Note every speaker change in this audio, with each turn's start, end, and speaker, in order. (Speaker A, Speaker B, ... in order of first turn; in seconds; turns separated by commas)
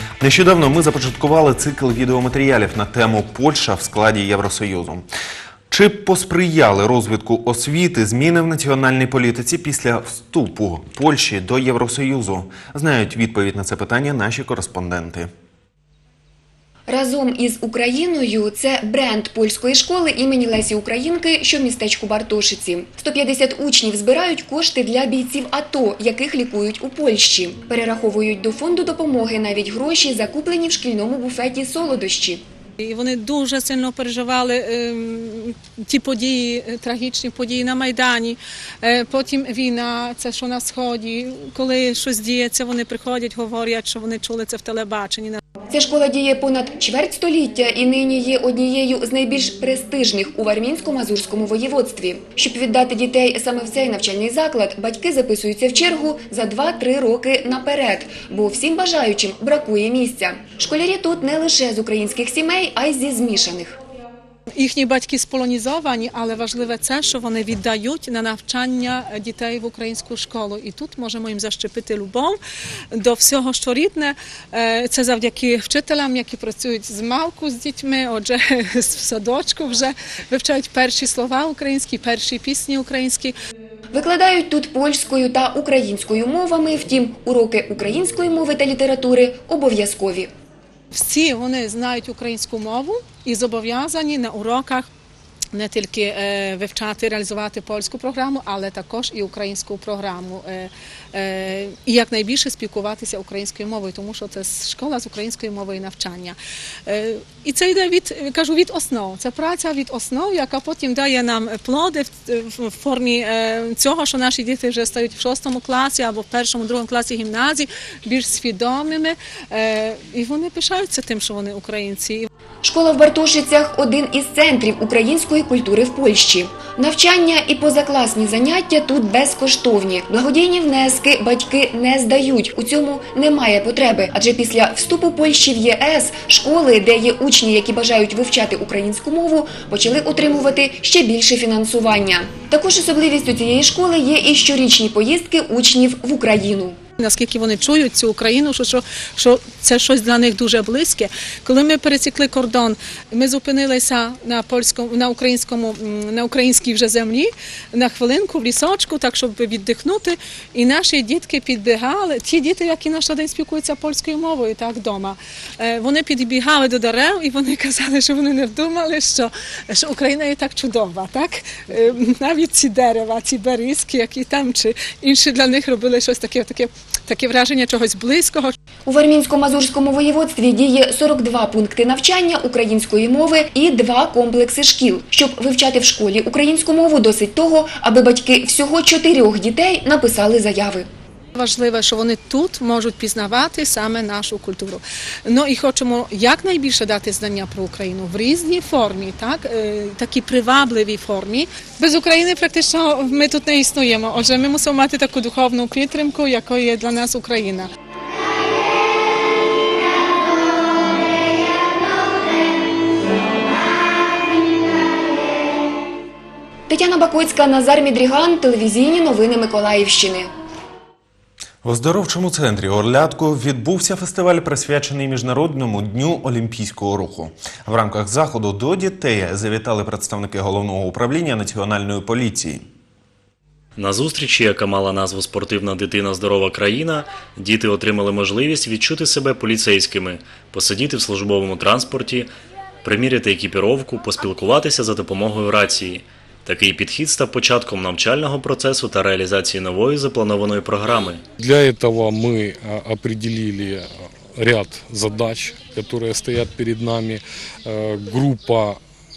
Speaker A: 0.2-5.1, Speaker A: 5.7-15.3, Speaker B: 16.9-32.4, Speaker C: 32.8-45.4, Speaker B: 45.7-63.8, Speaker C: 64.6-72.4, Speaker C: 72.9-83.3, Speaker B: 83.9-90.3, Speaker C: 90.9-94.9, Speaker C: 95.5-122.3, Speaker B: 122.6-146.8, Speaker C: 147.0-178.6, Speaker B: 178.8-190.8, Speaker C: 191.3-207.7, Speaker B: 216.7-220.3, Speaker A: 221.6-232.7, Speaker D: 233.8-242.3, Speaker D: 242.8-251.2, Speaker E: 251.4-258.8